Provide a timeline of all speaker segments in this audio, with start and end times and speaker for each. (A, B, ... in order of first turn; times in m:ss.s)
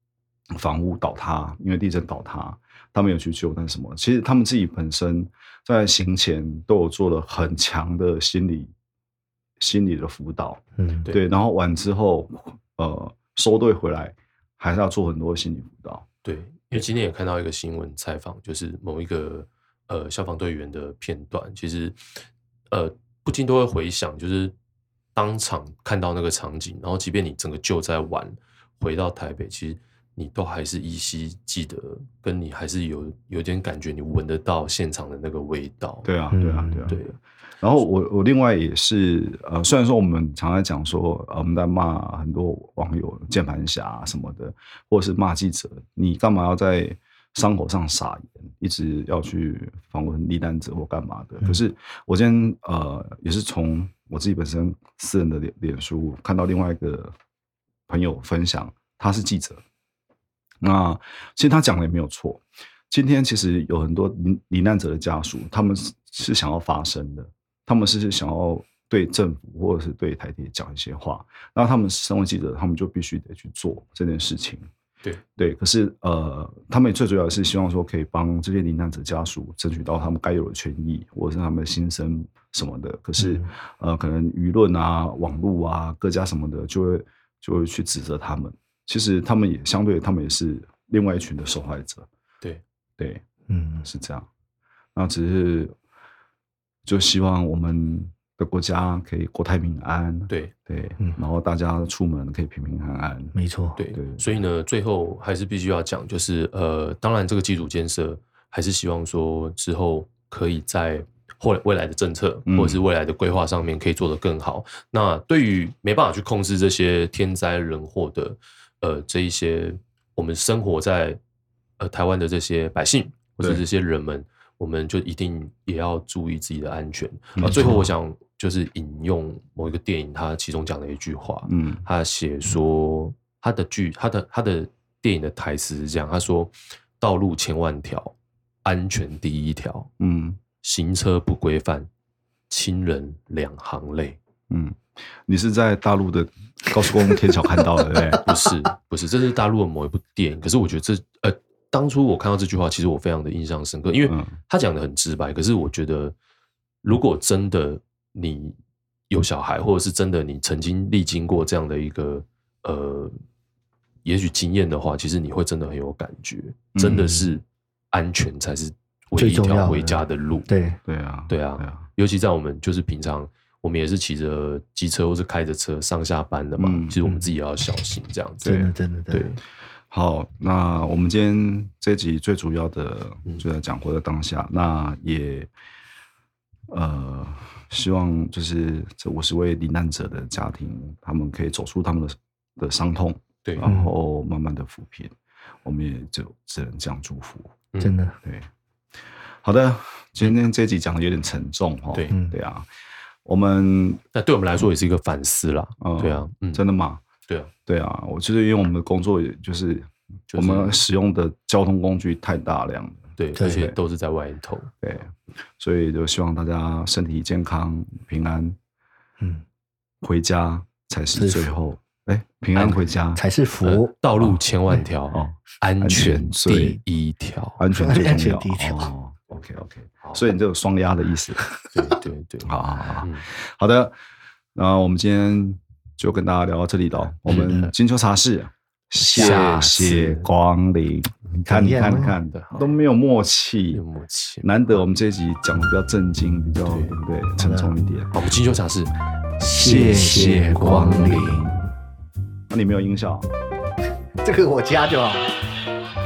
0:00.5-0:08.7 A
0:09.6-0:16.0 A
0:10.8-0:11.1 B
0:16.2-0:22.0 C
0:22.7-0:24.5 C
0:25.1-0:36.1 C
0:36.0-0:37.0 A
0:36.3-0:37.0 B
0:36.8-0:37.2 C
0:37.6-0:57.1 A
0:57.9-0:59.6 A
1:00.6-1:14.7 A
1:15.4-1:32.1 A
1:23.2-1:23.5 B
1:33.0-1:33.2 A
1:33.5-1:33.8 B
1:33.8-1:34.3 A
1:34.9-1:35.7 A
1:36.8-1:43.3 A
1:43.3-1:43.8 B
1:43.8-2:01.2 C
1:43.9-1:44.2 A
1:52.5-1:52.8 A
2:01.8-2:19.9 C
2:07.3-2:07.8 A
2:07.4-2:07.9 B
2:11.5-2:11.8 A
2:20.0-2:20.4 A
2:20.6-2:21.9 C
2:22.5-2:24.2 C
2:24.5-2:28.2 A
2:27.9-2:28.2 B
2:28.2-2:36.1 C
2:34.0-2:34.3 A
2:36.8-2:38.6 C
2:39.1-2:43.1 C
2:44.0-2:50.5 C
2:46.7-2:47.2 A
2:49.1-2:50.8 B
2:50.8-2:51.8 A
2:51.3-2:59.4 C
2:56.6-2:57.0 A
2:58.4-2:59.3 B
2:58.4-2:58.7 A
2:59.9-3:05.5 A
3:06.7-3:17.5 A
3:13.4-3:13.7 C
3:13.6-3:13.9 B
3:17.8-3:18.2 B
3:18.2-3:18.5 A
3:19.4-3:22.7 A
3:22.1-3:22.4 B
3:23.2-3:24.0 A
3:24.1-3:26.6 C
3:25.8-3:27.0 A
3:27.2-3:27.5 C
3:27.6-3:33.8 A
3:30.3-3:30.8 C
3:33.2-3:34.7 C
3:34.8-3:38.6 A
3:40.0-3:43.2 A
3:41.2-3:41.5 B
3:42.5-3:42.8 C
3:43.2-3:43.9 B
3:43.6-3:47.6 C
3:45.1-3:46.8 A
3:47.6-3:51.5 A
3:47.7-3:48.9 B
3:51.7-3:53.2 C
3:52.4-3:53.9 A
3:54.5-4:03.8 A
3:57.3-3:57.7 C
3:59.0-4:00.0 B
3:59.1-4:00.2 C
4:01.5-4:02.2 B
4:02.2-4:02.8 C
4:03.7-4:04.8 C
4:04.4-4:08.1 A
4:06.6-4:07.0 C
4:07.4-4:07.7 B
4:08.1-4:08.9 C
4:09.4-4:11.5 B
4:09.6-4:11.4 A
4:09.6-4:11.5 C
4:12.5-4:13.3 A
4:14.2-4:15.3 B